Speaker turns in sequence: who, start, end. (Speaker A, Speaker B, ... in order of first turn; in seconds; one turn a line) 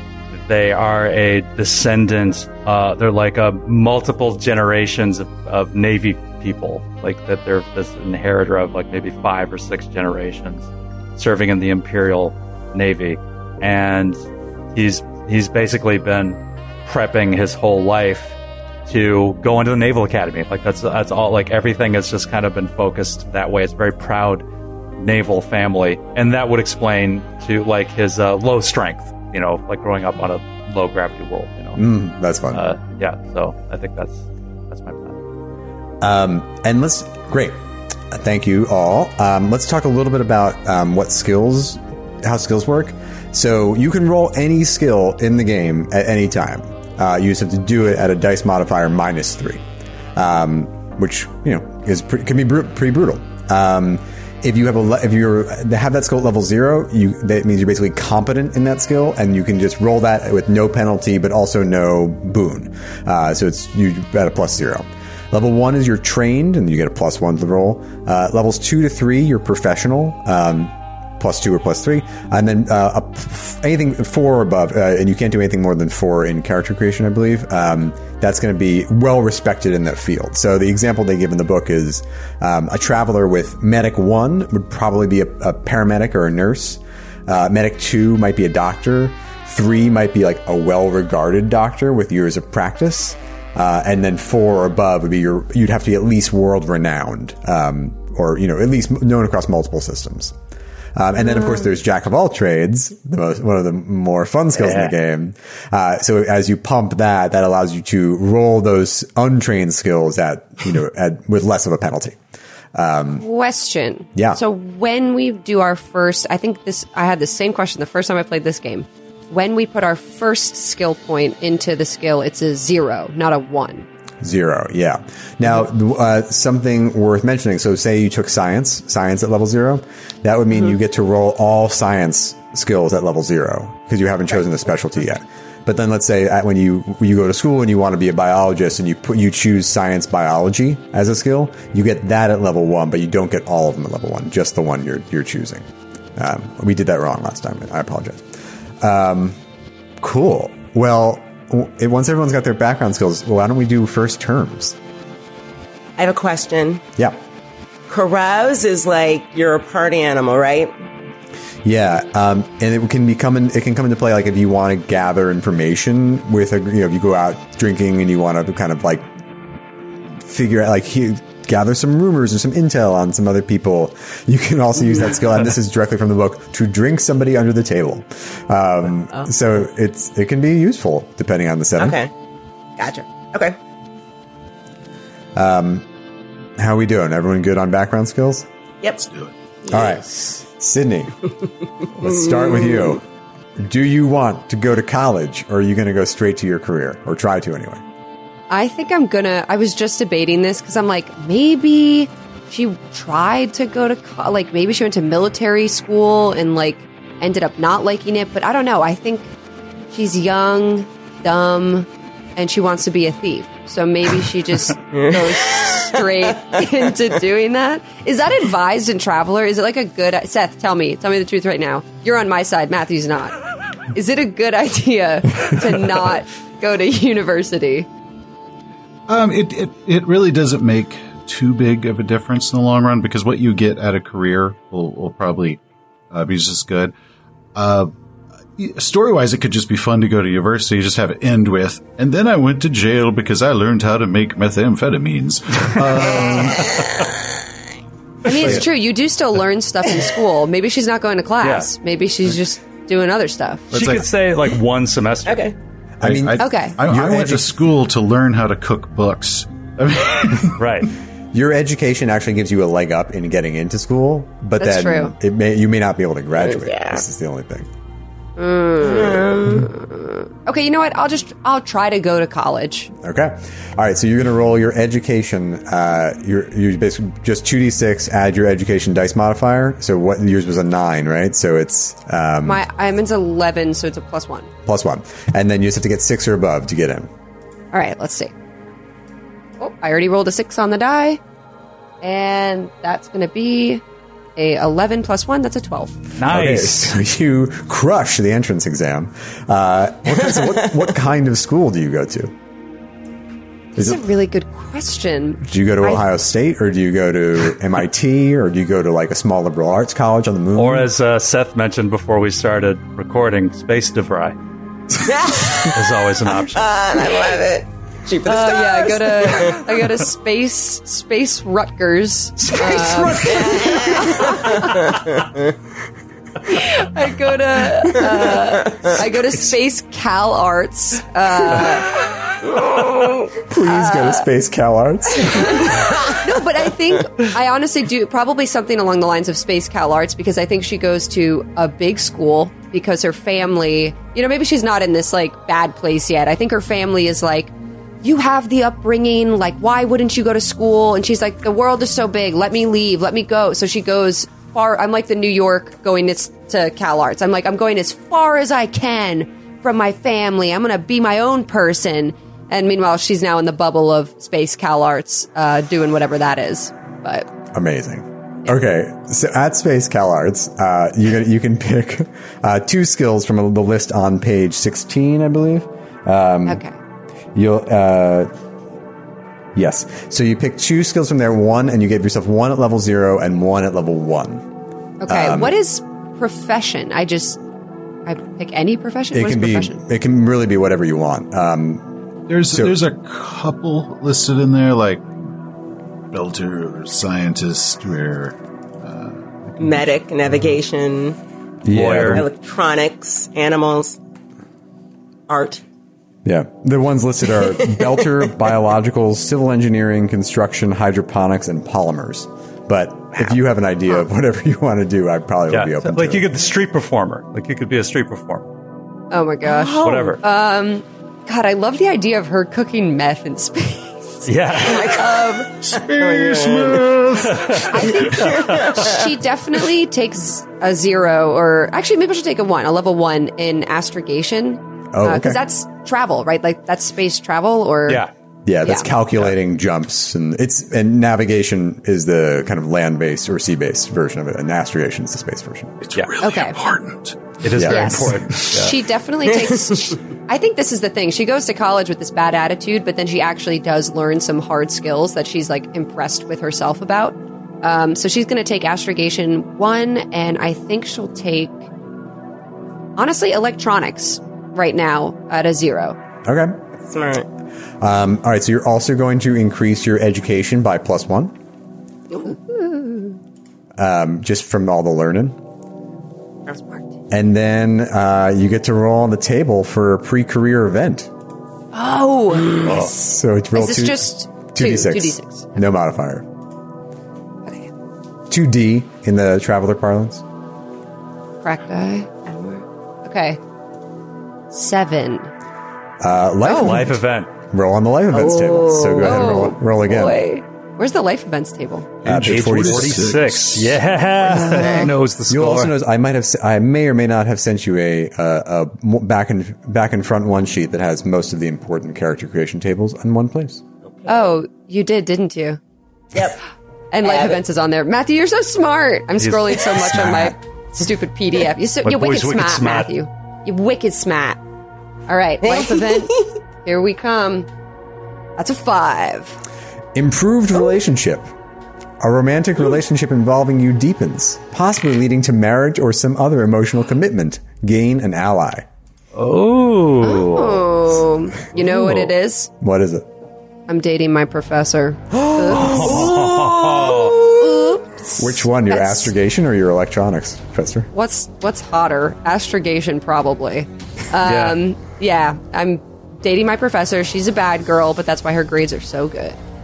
Speaker A: 0.3-14.2
Speaker A: 14.8-18.4
Speaker A: 18.9-24.4
Speaker A: 25.0-31.8
Speaker B: 31.8-32.6
Speaker A: 32.5-35.2
Speaker B: 36.0-37.6
Speaker B: 38.1-49.6
Speaker B: 50.1-100.3
Speaker B: 101.0-112.2
Speaker A: 104.6-104.9
Speaker B: 112.8-113.2
Speaker C: 113.2-123.9
Speaker B: 124.2-148.3
Speaker B: 148.8-149.4
Speaker B: 150.0-154.8
Speaker D: 156.0-156.8
Speaker D: 157.9-160.7
Speaker B: 161.6-169.1
Speaker B: 170.2-182.0
Speaker D: 181.8-182.1
Speaker D: 182.8-183.6
Speaker B: 185.3-185.9
Speaker B: 186.6-188.5
Speaker E: 189.0-189.3
Speaker B: 189.7-191.2
Speaker B: 192.0-193.0
Speaker D: 192.2-192.8
Speaker B: 193.6-197.8
Speaker C: 198.5-209.3
Speaker C: 209.9-223.3
Speaker D: 214.9-216.0
Speaker C: 223.9-227.9
Speaker E: 229.1-235.6
Speaker E: 236.1-236.9
Speaker E: 237.6-237.9
Speaker E: 238.6-246.8
Speaker D: 246.2-246.9
Speaker C: 248.2-253.7
Speaker E: 248.3-248.7
Speaker A: 251.4-251.7
Speaker E: 253.7-254.1
Speaker A: 253.7-255.5
Speaker D: 255.3-255.5
Speaker B: 256.0-257.6
Speaker E: 256.0-260.6
Speaker C: 256.4-256.8
Speaker A: 260.6-260.9
Speaker B: 261.3-267.7
Speaker C: 264.6-265.1
Speaker D: 266.4-267.0
Speaker C: 268.4-272.9
Speaker D: 268.8-269.7
Speaker B: 273.0-282.6
Speaker C: 282.4-284.5
Speaker B: 284.7-287.1
Speaker C: 287.7-288.3
Speaker C: 289.6-291.2
Speaker C: 292.0-293.8
Speaker C: 294.4-296.0
Speaker A: 296.2-296.9
Speaker B: 296.3-302.3
Speaker B: 303.8-304.0
Speaker C: 303.8-306.1
Speaker B: 305.4-310.9
Speaker A: 310.6-314.4
Speaker D: 315.0-315.8
Speaker A: 315.5-316.8
Speaker D: 316.5-319.7
Speaker C: 318.2-324.9
Speaker A: 322.4-325.1
Speaker D: 323.2-325.4
Speaker C: 326.4-331.9
Speaker B: 333.4-335.7
Speaker C: 333.6-334.2
Speaker C: 335.1-347.5
Speaker D: 335.7-336.2
Speaker C: 348.0-367.3
Speaker B: 367.5-376.6
Speaker C: 376.5-376.8
Speaker B: 377.3-378.3
Speaker B: 379.6-384.4
Speaker C: 385.0-387.4
Speaker B: 385.1-385.6
Speaker C: 388.1-389.8
Speaker B: 389.1-391.9
Speaker E: 392.3-395.1
Speaker B: 392.5-392.8
Speaker E: 396.1-399.9
Speaker D: 399.6-401.2
Speaker B: 401.6-402.3
Speaker A: 401.7-402.2
Speaker D: 402.0-404.0
Speaker D: 405.3-405.6
Speaker B: 406.2-416.4
Speaker A: 415.5-418.5
Speaker C: 419.1-425.5
Speaker D: 419.4-420.2
Speaker A: 419.8-420.2
Speaker A: 424.3-425.0
Speaker D: 424.6-425.3
Speaker E: 425.6-428.1
Speaker D: 426.0-427.0
Speaker A: 427.3-427.7
Speaker C: 427.7-438.0
Speaker D: 427.8-429.1
Speaker A: 428.2-428.7
Speaker B: 434.9-435.4
Speaker B: 438.5-445.8
Speaker C: 438.6-438.9
Speaker E: 445.8-447.3
Speaker C: 446.2-446.6
Speaker A: 447.4-448.8
Speaker B: 447.6-448.2
Speaker C: 447.6-461.6
Speaker C: 463.0-466.0
Speaker B: 466.2-466.6
Speaker D: 466.9-467.3
Speaker B: 467.8-471.3
Speaker C: 472.1-473.1
Speaker B: 473.8-475.4
Speaker B: 477.1-481.1
Speaker C: 481.7-485.5
Speaker A: 482.6-482.9
Speaker B: 482.8-486.3
Speaker B: 488.3-490.2
Speaker C: 491.4-493.4
Speaker C: 494.5-495.3
Speaker B: 496.0-500.2
Speaker C: 496.4-496.9
Speaker A: 496.6-497.3
Speaker D: 498.3-499.0
Speaker C: 499.0-501.9
Speaker B: 502.1-503.2
Speaker E: 502.1-503.8
Speaker A: 502.1-505.7
Speaker C: 504.3-504.9
Speaker D: 504.5-504.9
Speaker B: 505.3-513.6
Speaker C: 514.1-515.6
Speaker D: 516.1-516.4
Speaker C: 516.9-524.4
Speaker D: 517.0-517.4
Speaker A: 519.2-520.3
Speaker A: 521.8-522.9
Speaker C: 525.1-527.5
Speaker D: 525.4-526.4
Speaker C: 528.4-529.4
Speaker B: 530.0-531.3
Speaker B: 532.0-538.7
Speaker A: 539.1-540.7
Speaker C: 540.0-542.5
Speaker B: 542.6-543.1
Speaker C: 543.7-549.1
Speaker A: 545.4-547.4
Speaker B: 548.2-550.9
Speaker C: 550.9-559.4
Speaker A: 554.2-554.6